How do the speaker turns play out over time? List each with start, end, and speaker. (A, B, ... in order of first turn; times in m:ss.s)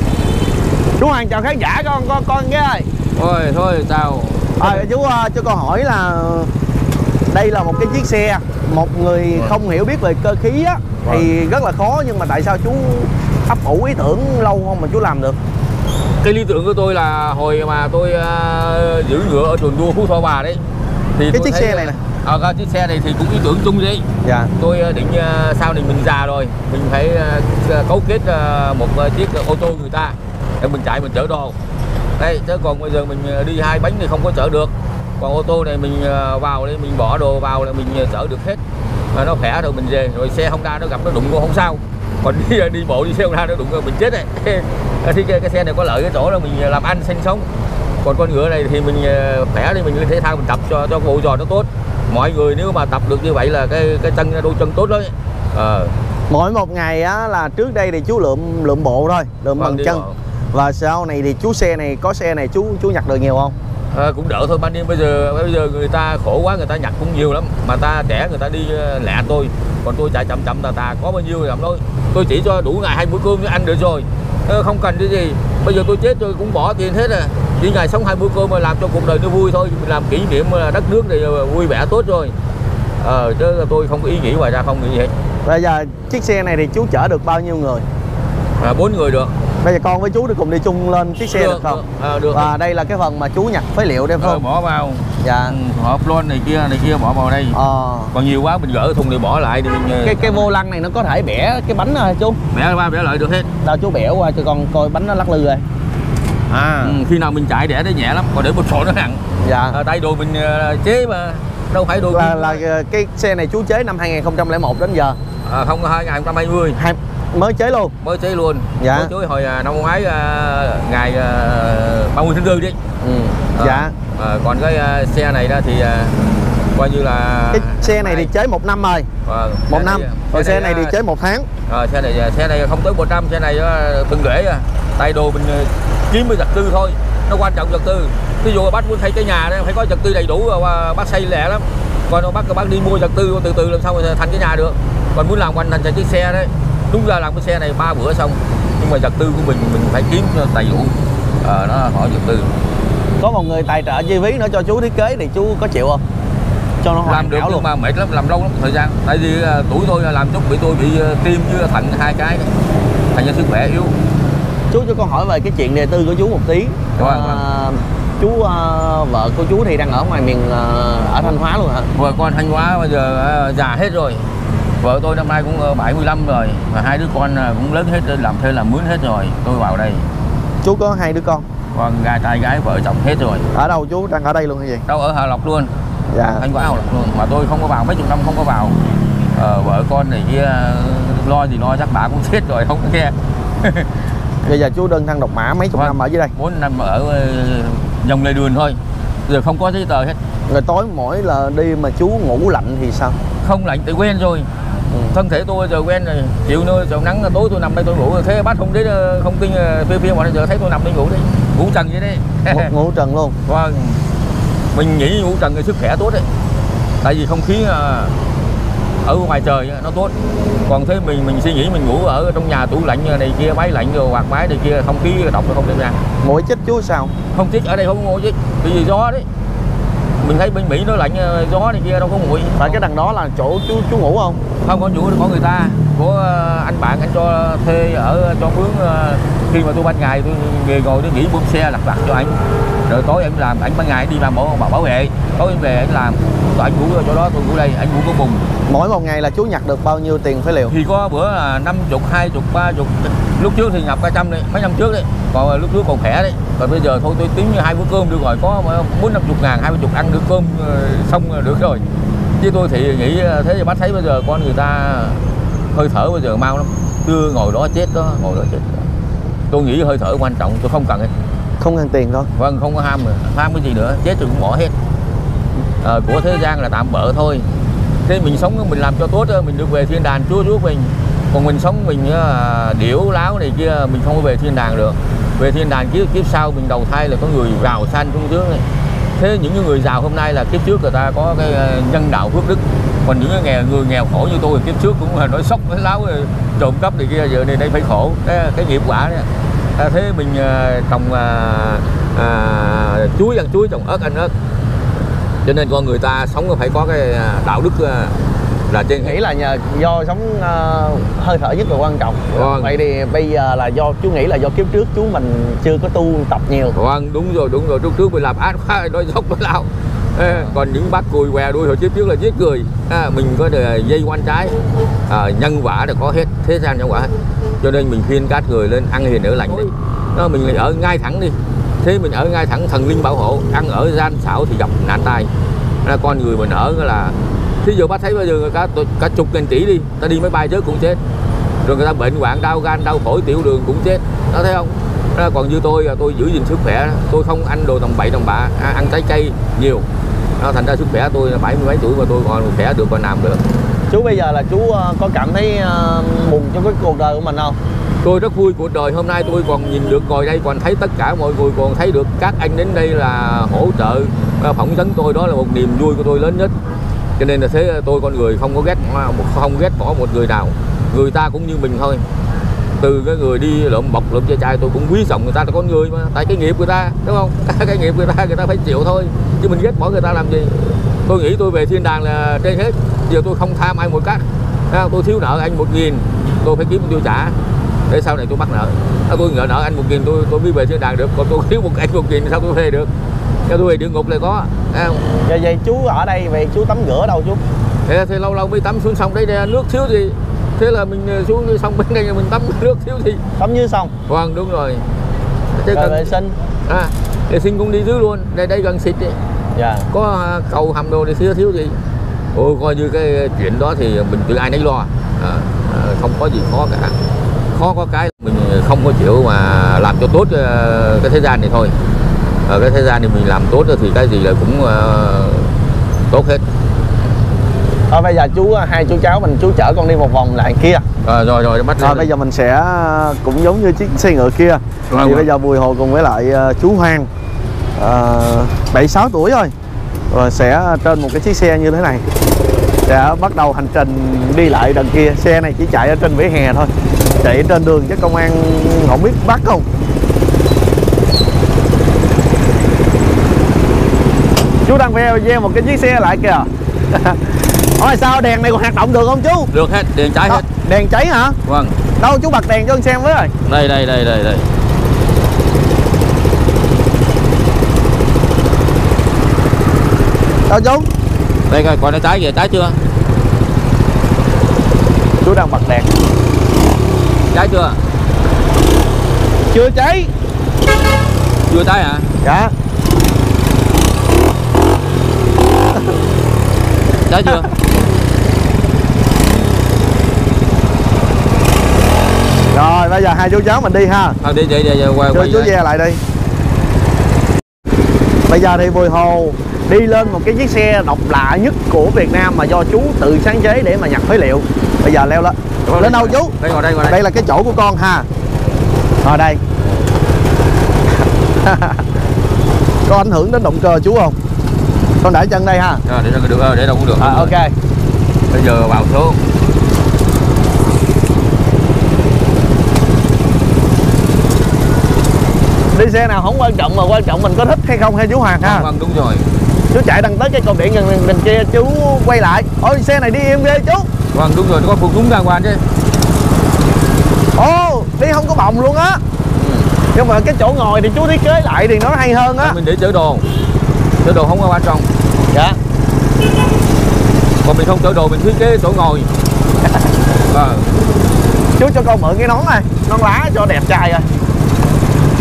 0:01.0-0:02.9 A
0:03.2-0:04.9 B
0:04.6-0:06.5 A
0:07.3-0:15.4 A
0:16.2-0:20.6 B
0:21.2-0:31.5 B
0:21.3-0:22.0 A
0:24.2-0:24.5 A
0:32.2-0:38.6 B
0:39.1-0:47.5 B
0:48.0-0:55.9 B
0:56.3-1:03.5 A
0:59.6-1:00.2 B
1:03.9-1:22.3 B
1:23.0-1:25.1 B
1:25.4-1:27.8 A
1:28.6-1:29.4 B
1:29.6-1:34.4 A
1:31.3-1:32.5 B
1:34.2-1:37.6 B
1:35.2-1:35.5 A
1:37.5-1:38.1 A
1:38.1-1:40.5 B
1:40.0-1:42.4 A
1:42.5-1:43.5 B
1:43.6-1:45.6 A
1:46.5-1:47.0 A
1:46.8-1:52.6 B
1:49.4-1:49.8 A
1:52.1-1:55.2 A
1:55.4-1:56.8 B
1:56.8-1:57.9 A
1:58.0-2:02.8 B
1:58.8-1:59.1 A
2:03.0-2:03.9 A
2:03.6-2:06.2 B
2:06.7-2:08.3 B
2:07.5-2:09.1 A
2:09.2-2:11.0 B
2:09.7-2:11.5 A
2:11.7-2:32.5 B
2:33.2-2:36.0 A
2:36.8-2:37.6 A
2:37.0-2:42.5 B
2:43.1-2:43.9 B
2:44.7-2:51.9 A
2:47.0-2:47.4 B
2:51.9-2:54.3 B
2:54.8-3:00.1 B
3:00.6-3:01.4 A
3:01.7-3:03.6 B
3:03.5-3:04.8 A
3:04.9-3:08.8 B
3:06.1-3:06.4 A
3:09.3-3:13.9 B
3:14.4-3:16.3 A
3:15.7-3:20.2 B
3:20.5-3:23.2 A
3:23.4-3:24.5 B
3:25.1-3:32.7 B
3:32.5-3:33.4 A
3:33.4-3:34.0 B
3:34.7-3:36.2 B
3:37.0-3:38.1 B
3:39.0-3:40.1 B
3:40.6-3:46.0 B
3:46.2-3:47.1 A
3:47.3-3:49.2 B
3:50.2-3:52.8 B
3:52.6-3:54.4 A
3:54.6-4:08.4 B
4:08.7-4:10.7 A
4:10.7-4:21.8 B
4:22.4-4:25.2 B
4:25.7-4:28.9 B
4:29.5-4:31.1 B
4:31.6-4:32.3 A
4:32.4-4:34.7 B
4:35.8-4:37.5 B
4:38.0-4:48.6 B
4:49.2-4:59.2 B
4:59.8-5:04.3 B
5:05.4-5:08.1 B
5:08.7-5:09.2 B
5:09.0-5:16.7 A
5:12.3-5:12.8 B
5:16.7-5:35.3 B
5:35.8-5:41.0 B
5:41.6-5:49.9 B
5:50.4-5:53.4 B
5:53.9-5:57.6 A
5:58.0-6:06.5 B
6:07.2-6:12.0 B
6:12.8-6:27.4 B
6:27.9-6:32.9 B
6:33.5-6:35.1 B
6:35.2-6:37.4 A
6:37.8-6:43.2 B
6:43.4-6:43.9 A
6:44.1-6:44.8 B
6:45.5-6:49.2 B
6:45.7-6:46.3 A
6:49.5-6:49.9 A
6:49.9-6:51.8 B
6:52.3-6:57.0 B
6:57.5-7:01.7 B
7:02.5-7:05.5 B
7:06.1-7:06.4 B
7:07.9-7:10.8 A
7:11.0-7:12.1 B
7:11.8-7:17.1 A
7:14.9-7:15.3 B
7:17.8-7:19.5 A
7:20.1-7:22.0 A
7:22.9-7:29.6 A
7:34.6-7:39.5 A
7:39.5-7:40.4 B
7:40.3-7:41.4 A
7:41.4-7:41.7 B
7:42.0-7:43.3 A
7:43.4-7:44.5 B
7:50.5-7:50.9 A
7:51.5-7:52.8 B
7:55.2-7:55.9 A
7:57.3-7:57.8 B
7:59.5-8:00.1 A
8:01.5-8:02.1 B
8:02.2-8:02.5 A
8:07.1-8:07.5 B
8:12.5-8:14.2 A
8:14.2-8:15.5 B
8:15.1-8:16.0 A
8:18.3-8:26.3 A
8:25.7-8:27.0 B
8:26.9-8:28.1 A
8:29.0-8:29.4 A
8:31.4-8:31.8 A
8:32.8-8:34.2 A
8:35.0-8:35.8 A
8:35.8-8:37.3 B
8:37.0-8:37.5 A
8:38.3-8:39.2 B
8:45.7-8:48.7 A
8:48.4-8:49.3 B
8:49.7-8:53.9 A
8:54.1-8:55.6 B
8:57.4-8:59.0 A
8:59.8-9:02.6 A
9:02.4-9:03.2 B
9:04.0-9:04.9 B
9:05.3-9:05.6 A
9:07.4-9:09.1 B
9:10.3-9:10.7 B
9:11.6-9:14.1 A